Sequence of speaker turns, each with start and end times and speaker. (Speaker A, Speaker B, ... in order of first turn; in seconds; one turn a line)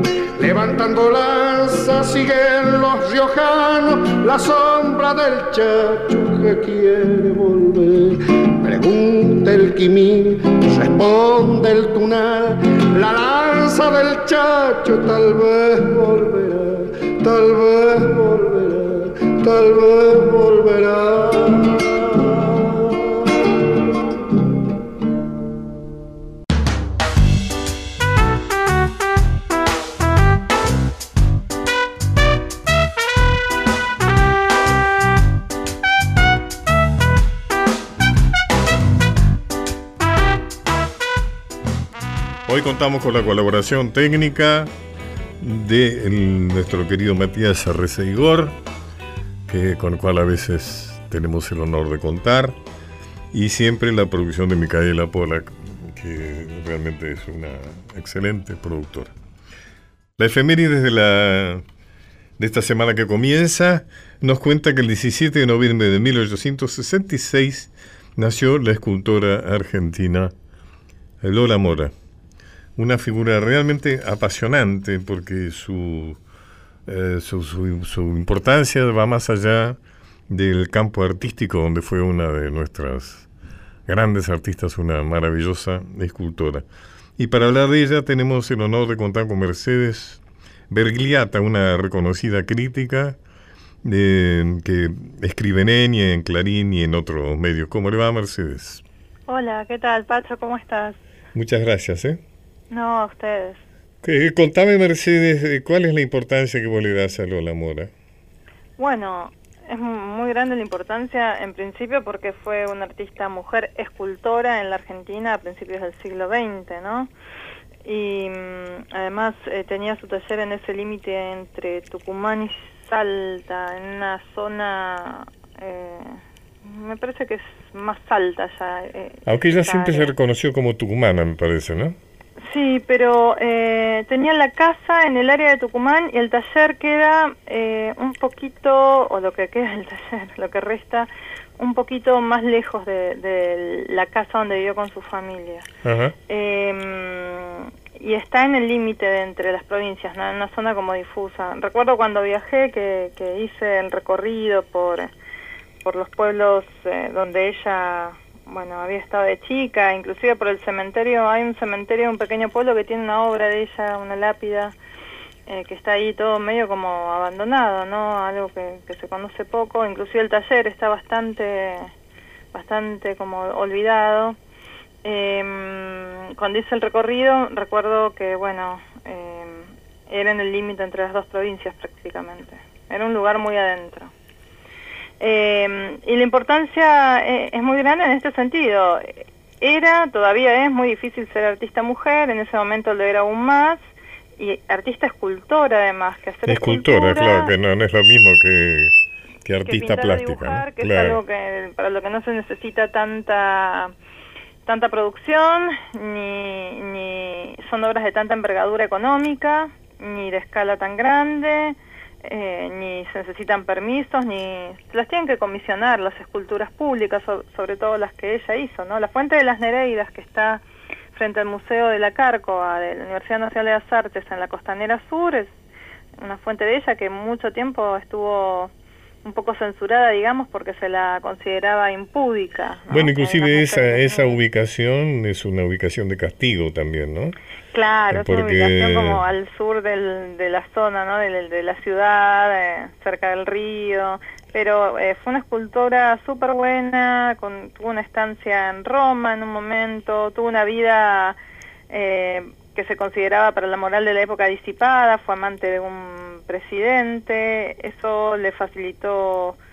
Speaker A: 0.3-23.3
Speaker B: 42.5-44.7
Speaker B: 45.4-48.5
Speaker B: 49.5-52.5
Speaker B: 53.3-59.1
Speaker B: 60.2-61.6
Speaker B: 62.4-70.3
Speaker B: 71.2-71.9
Speaker B: 72.8-76.2
Speaker B: 76.8-83.3
Speaker B: 83.9-86.6
Speaker B: 87.2-93.2
Speaker B: 93.8-98.8
Speaker C: 99.3-101.0
Speaker B: 101.3-102.2
Speaker C: 102.7-103.6
Speaker B: 104.0-107.9
Speaker C: 108.8-117.1
Speaker C: 117.8-130.1
Speaker B: 129.3-132.0
Speaker C: 132.4-145.7
Speaker B: 145.8-146.2
Speaker C: 146.3-155.1
Speaker C: 155.8-164.7
Speaker C: 165.5-171.9
Speaker C: 172.5-174.4
Speaker C: 175.0-184.1
Speaker C: 185.2-193.8
Speaker C: 194.4-197.5
Speaker B: 196.4-201.2
Speaker C: 199.6-203.9
Speaker C: 204.7-225.5
Speaker C: 226.2-228.7
Speaker C: 229.2-234.4
Speaker B: 232.9-237.3
Speaker C: 237.7-251.4
Speaker B: 238.1-239.2
Speaker C: 251.9-259.6